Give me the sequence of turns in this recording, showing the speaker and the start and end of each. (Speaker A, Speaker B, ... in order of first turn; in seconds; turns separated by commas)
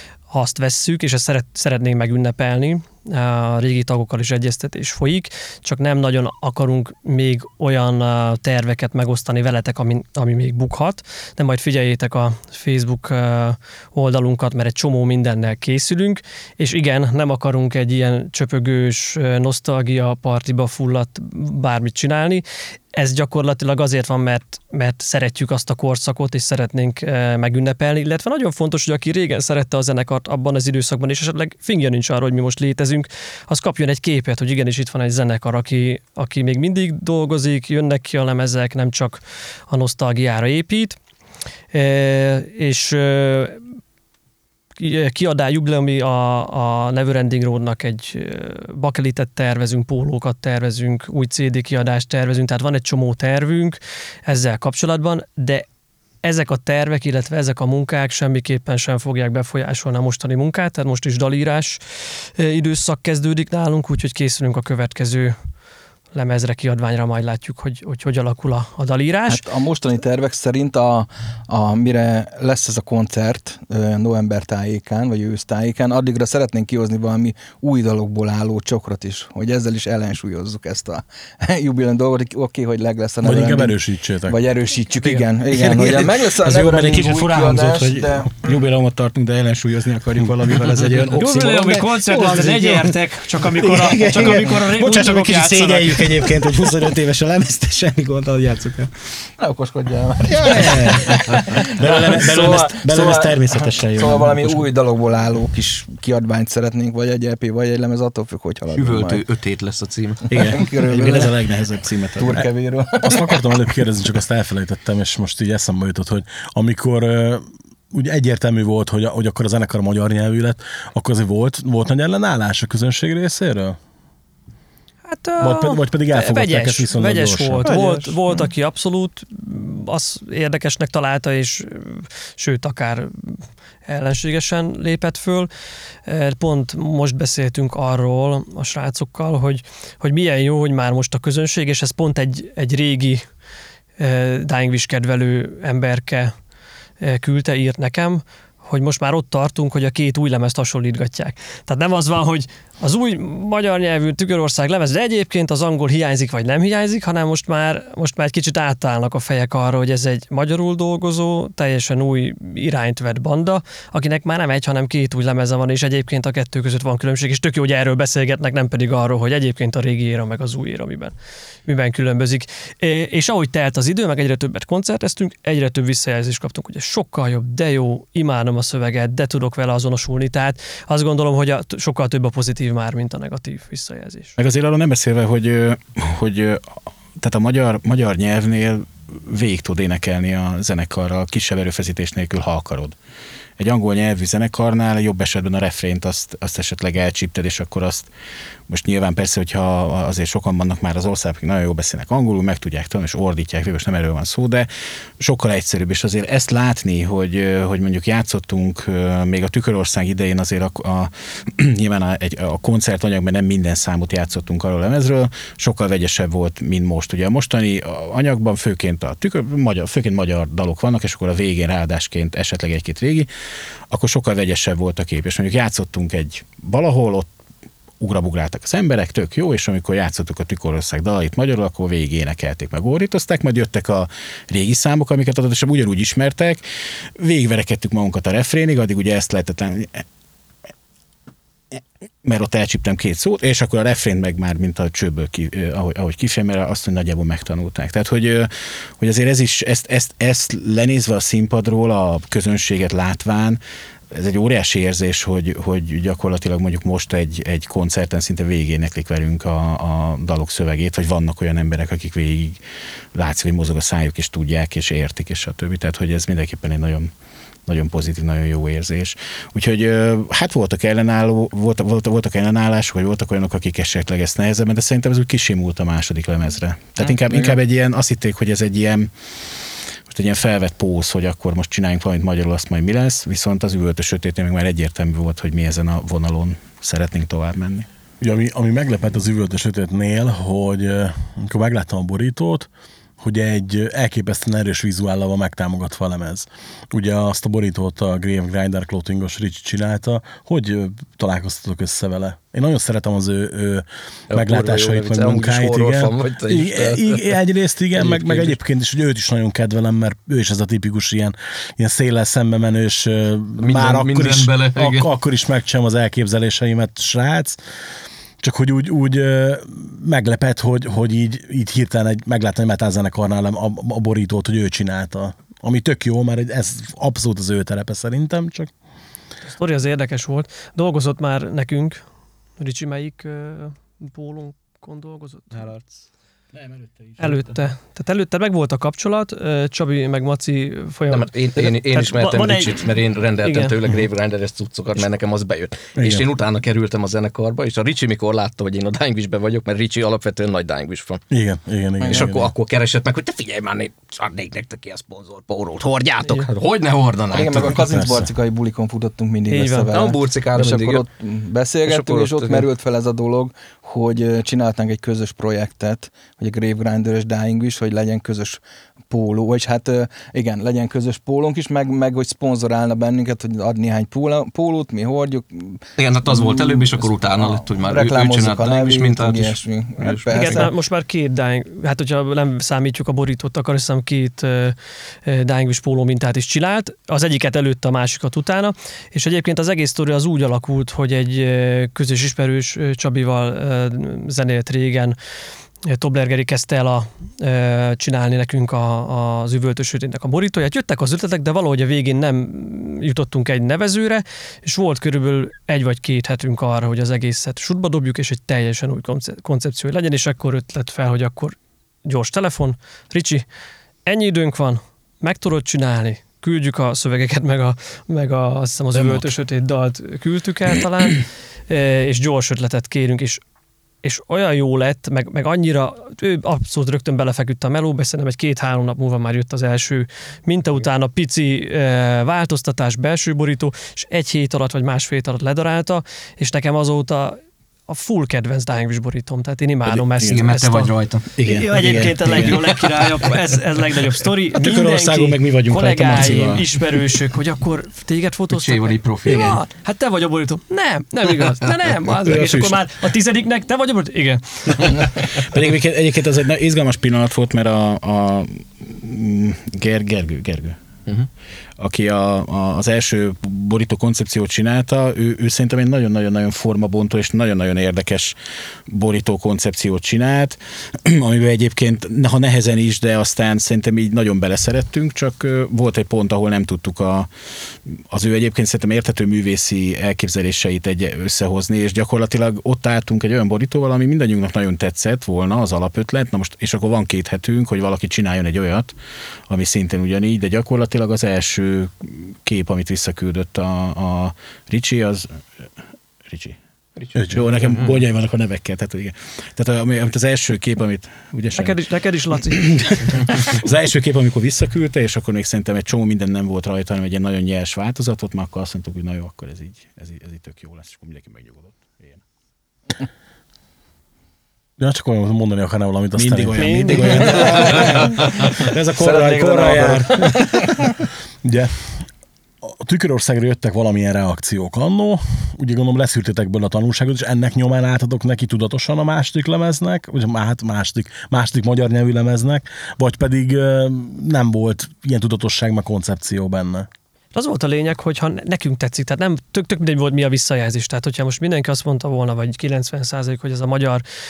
Speaker A: 0.3-41.0, Speaker A: 41.7-43.6, Speaker A: 44.8-55.6, Speaker A: 56.2-65.4, Speaker A: 66.1-69.4, Speaker B: 69.3-83.8, Speaker C: 83.2-84.4, Speaker B: 84.3-88.4, Speaker D: 85.5-98.9, Speaker A: 91.1-96.4, Speaker B: 99.4-109.2, Speaker D: 100.3-104.7, Speaker E: 108.7-110.3, Speaker D: 110.3-112.5, Speaker B: 110.4-111.3, Speaker B: 112.2-113.4, Speaker C: 113.0-123.8, Speaker A: 125.1-135.5, Speaker C: 125.4-127.7, Speaker B: 127.6-128.2, Speaker A: 136.0-143.2, Speaker A: 144.0-146.3, Speaker A: 147.0-184.3, Speaker D: 184.4-193.0, Speaker D: 193.6-198.1, Speaker D: 198.7-223.3, Speaker D: 223.9-227.3, Speaker D: 228.0-236.6, Speaker D: 237.2-240.1, Speaker D: 241.7-253.6, Speaker D: 254.1-262.6, Speaker D: 263.1-267.1, Speaker D: 267.7-279.1, Speaker B: 277.0-277.6, Speaker D: 280.1-287.9, Speaker C: 288.2-292.7, Speaker C: 293.2-317.6, Speaker E: 304.3-307.2, Speaker E: 307.9-308.6, Speaker E: 313.6-315.1, Speaker C: 318.4-328.7, Speaker A: 329.5-332.0, Speaker A: 332.6-335.7, Speaker D: 336.5-337.4, Speaker A: 337.2-342.9, Speaker E: 341.1-351.2, Speaker A: 343.4-343.7, Speaker C: 345.9-346.2, Speaker C: 351.3-352.5, Speaker E: 352.0-357.8, Speaker A: 356.2-356.5, Speaker B: 357.3-380.7, Speaker C: 357.8-358.3, Speaker A: 359.5-359.9, Speaker E: 359.9-361.0, Speaker E: 361.8-362.7, Speaker E: 376.0-380.6, Speaker A: 380.3-395.1, Speaker A: 395.9-413.4, Speaker A: 414.1-423.4, Speaker D: 419.0-419.2, Speaker A: 424.0-455.4, Speaker D: 439.9-440.6, Speaker E: 440.2-441.2, Speaker D: 441.3-442.9, Speaker D: 444.5-446.6, Speaker E: 448.5-449.6, Speaker D: 449.2-449.6, Speaker D: 452.2-452.8, Speaker D: 455.3-460.8, Speaker D: 461.8-468.4, Speaker D: 468.9-477.3, Speaker D: 477.9-488.9, Speaker D: 489.5-495.7, Speaker D: 496.2-496.6, Speaker E: 497.0-497.9, Speaker D: 497.3-501.8, Speaker A: 501.5-502.8, Speaker D: 502.5-512.2, Speaker C: 514.8-517.1, Speaker D: 516.1-520.7, Speaker A: 516.6-517.8, Speaker B: 517.2-520.8, Speaker C: 521.4-522.0, Speaker C: 522.6-536.9, Speaker A: 537.3-544.0